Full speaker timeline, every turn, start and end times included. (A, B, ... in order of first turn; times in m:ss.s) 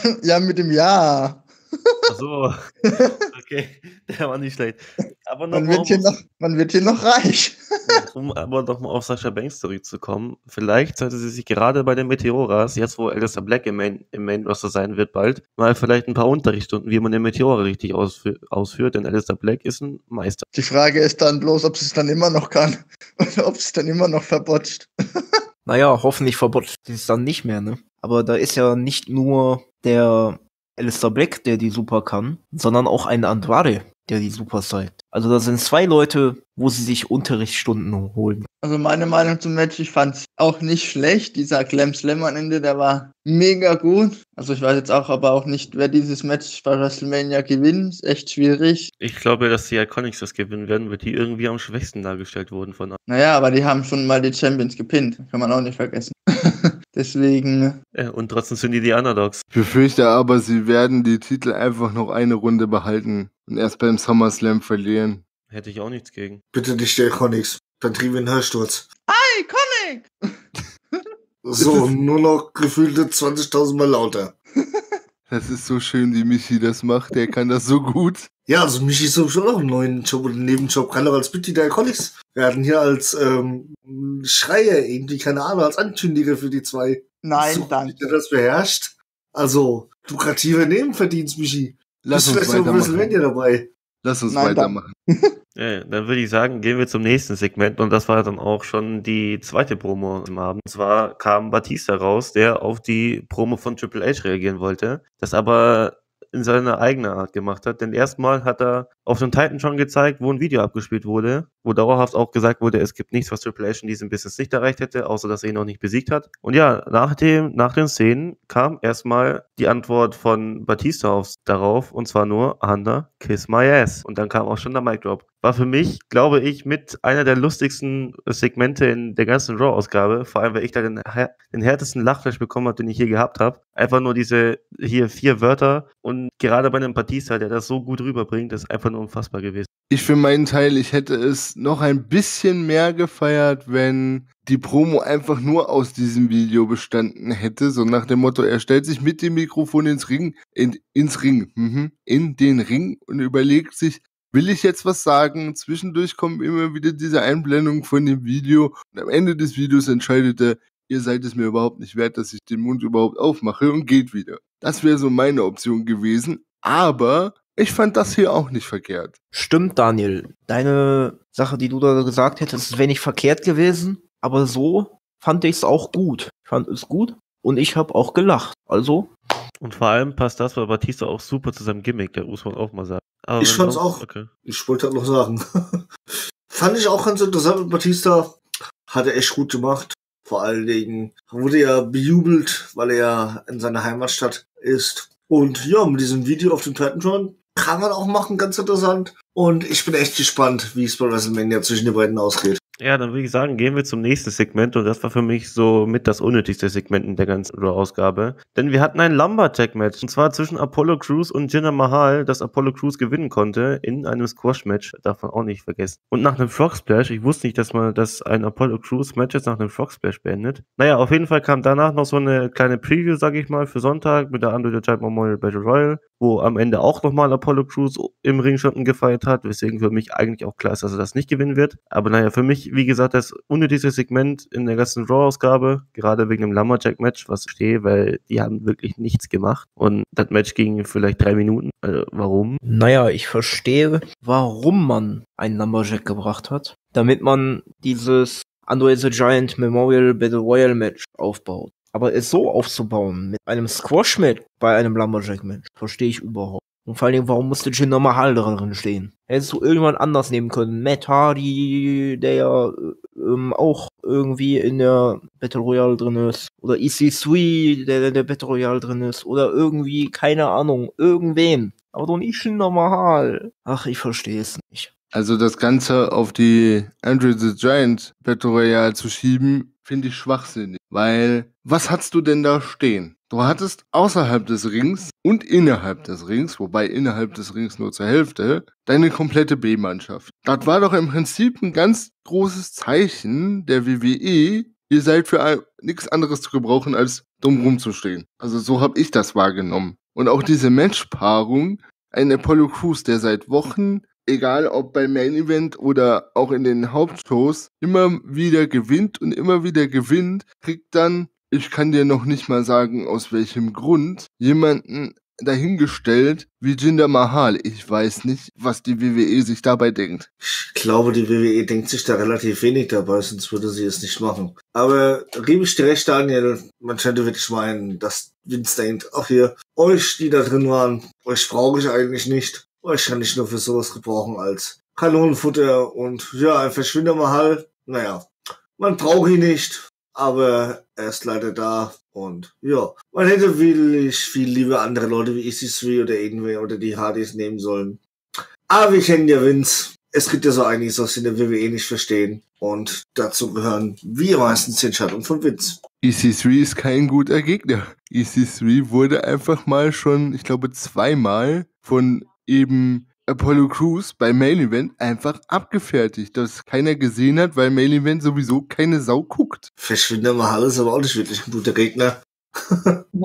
0:00.2-0:02.0 A
0:02.1-0:02.7 B
0:03.3-0:06.1 B
0:05.5-0:07.6 A
0:07.9-0:20.4 B
0:20.5-0:24.9 A
0:25.7-0:38.5 C
0:38.6-0:48.9 A
0:49.0-0:53.0 B
0:53.1-0:56.1 A
0:56.9-0:57.8 A
0:58.0-0:59.4 B
0:59.5-1:05.2 D
1:05.5-1:06.4 B
1:06.5-1:08.9 E
1:09.1-1:10.1 A
1:11.4-1:14.4 E
1:11.6-1:11.9 D
1:15.3-1:18.3 D
1:18.5-1:33.7 E
1:27.2-1:28.2 A
1:32.0-1:33.2 D
1:34.0-1:34.9 D
1:34.3-1:34.9 A
1:35.6-2:19.7 B
2:19.9-2:49.2 D
2:49.3-2:59.1 C
2:59.6-3:04.3 B
3:03.4-3:05.4 E
3:06.5-3:22.6 E
3:22.8-4:02.6 B
4:02.6-4:34.9 C
4:35.1-5:20.3 D
5:20.4-5:48.0 E
5:48.7-5:55.8 E
5:56.0-6:09.7 D
6:09.8-6:13.0 E